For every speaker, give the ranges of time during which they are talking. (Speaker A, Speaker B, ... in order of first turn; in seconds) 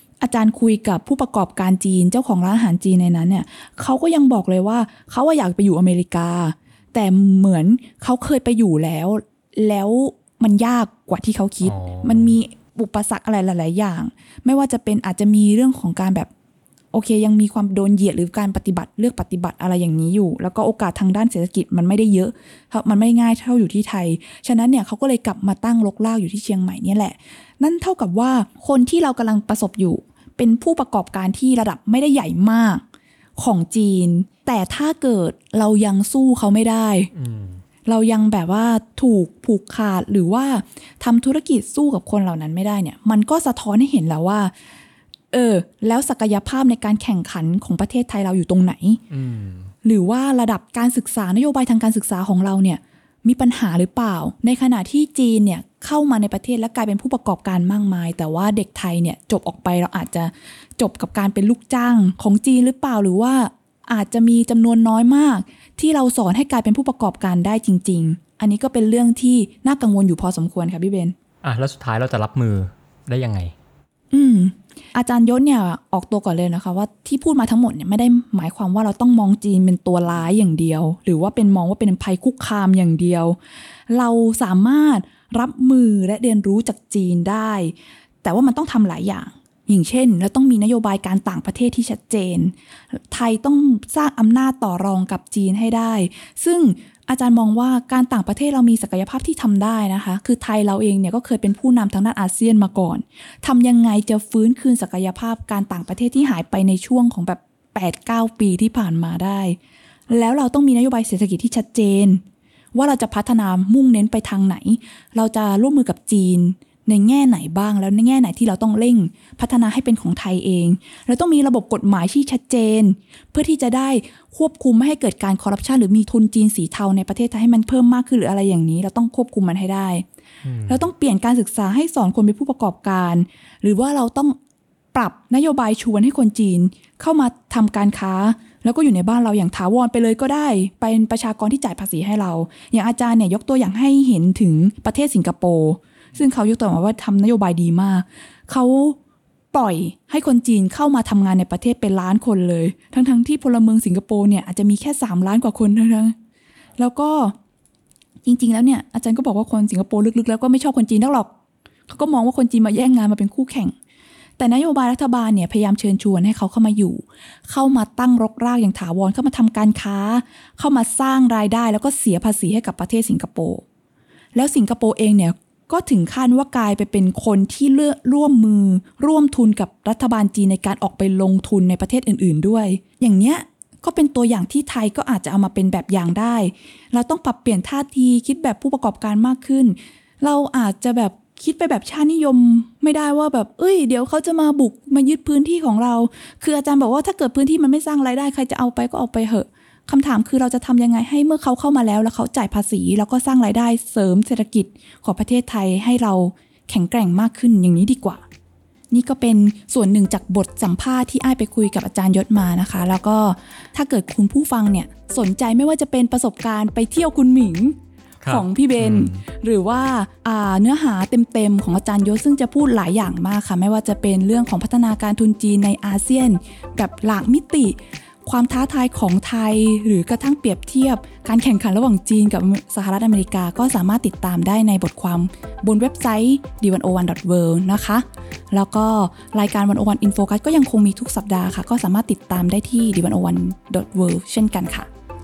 Speaker A: 0.2-16.3, 16.9-32.8, 33.4-37.1, 37.9-44.5, 45.3-49.0, 49.8-71.1, 74.1-83.4, 83.9-109.6, 110.1-112.2, 112.7-130.1, 130.7-134.4, 134.9-149.0, 149.5-156.1, 156.8-157.3, 158.2-161.3, 161.9-163.7, 164.4-173.6, 174.3-208.2, 208.9-217.8, 218.3-244.9
Speaker B: 11.6-12.3, 37.1-37.6, 49.1-49.7, 71.4-73.5, 130.4-130.9, 218.2-219.2